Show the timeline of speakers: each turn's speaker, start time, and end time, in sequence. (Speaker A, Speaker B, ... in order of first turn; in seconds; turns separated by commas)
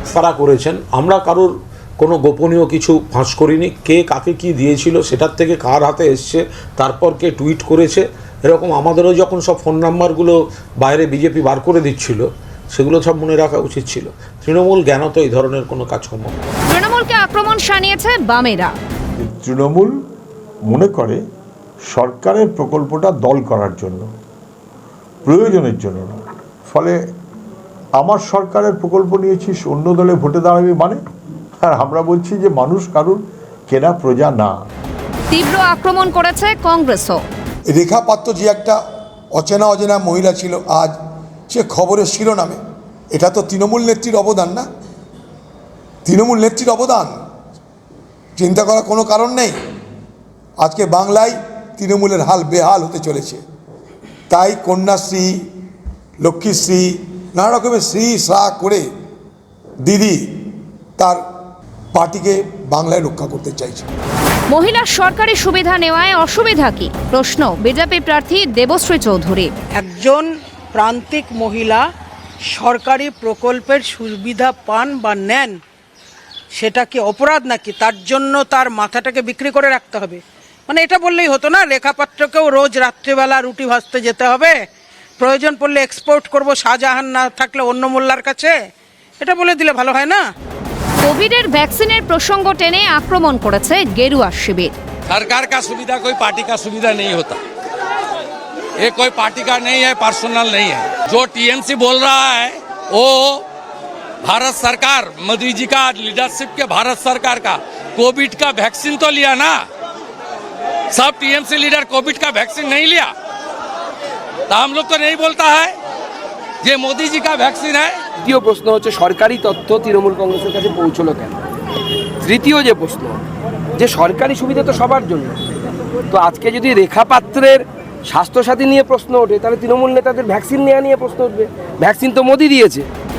Speaker A: 0.1-16.3, Speaker B: 16.7-18.7, Speaker C: 19.2-19.9, Speaker C: 20.7-21.2, Speaker C: 21.9-24.1, Speaker C: 25.2-26.2, Speaker C: 26.7-27.0, Speaker C: 28.0-31.0, Speaker C: 31.6-34.5, Speaker B: 35.3-37.2, Speaker D: 37.7-38.8, Speaker D: 39.3-40.9, Speaker D: 41.5-42.6, Speaker D: 43.1-44.6, Speaker D: 46.0-47.1, Speaker D: 48.4-49.5, Speaker D: 50.6-53.4, Speaker D: 54.3-55.3, Speaker D: 56.2-58.8, Speaker D: 59.8-60.2, Speaker D: 61.9-63.9, Speaker B: 64.5-69.5, Speaker E: 69.7-71.8, Speaker E: 72.5-75.6, Speaker E: 76.5-84.5, Speaker E: 85.2-88.5, Speaker E: 89.2-90.2, Speaker B: 91.0-94.8, Speaker F: 95.1-97.4, Speaker F: 98.8-103.4, Speaker F: 104.2-109.7, Speaker F: 110.9-113.1, Speaker F: 114.5-115.7, Speaker F: 116.6-118.0, Speaker G: 118.2-121.3, Speaker G: 122.2-123.2, Speaker G: 123.7-125.4, Speaker G: 126.1-132.8